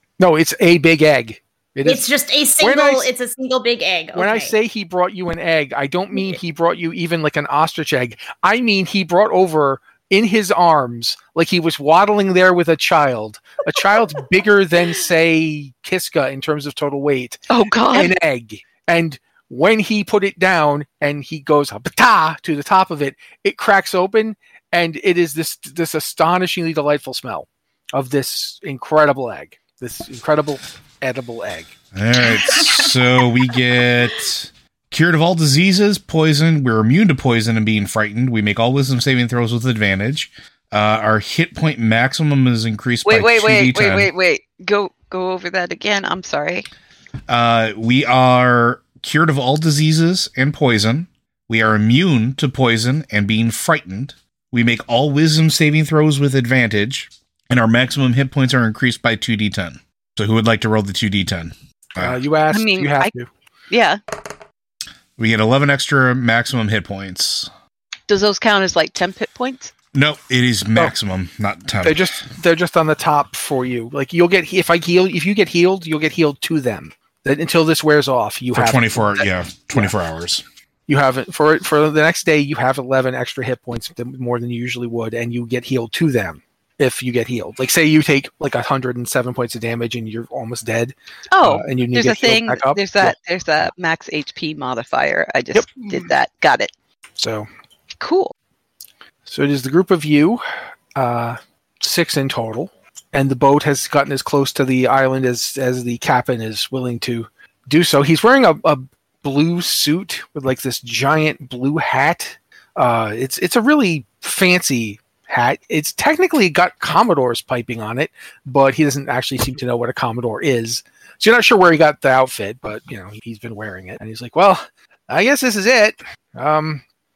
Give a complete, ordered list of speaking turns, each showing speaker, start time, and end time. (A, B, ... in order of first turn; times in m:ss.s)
0:00.2-0:02.1 A
0:01.8-0:04.6 B
0:02.6-0:03.1 A
0:04.1-0:31.8 A
0:17.5-0:18.1 C
0:31.9-0:44.1 D
0:32.2-0:32.9 B
0:43.0-0:46.7 C
0:47.3-1:02.2 D
1:02.0-1:03.3 A
1:02.5-1:03.1 C
1:03.7-1:04.0 C
1:05.2-1:07.5 D
1:08.1-1:09.7 C
1:09.9-1:12.2 D
1:11.8-1:19.9 A
1:18.5-1:20.4 D
1:20.9-1:33.2 A
1:31.3-1:36.7 C
1:35.6-1:36.0 A
1:37.2-1:37.5 A
1:38.0-1:38.3 C
1:39.3-1:40.4 A
1:41.0-2:06.8 A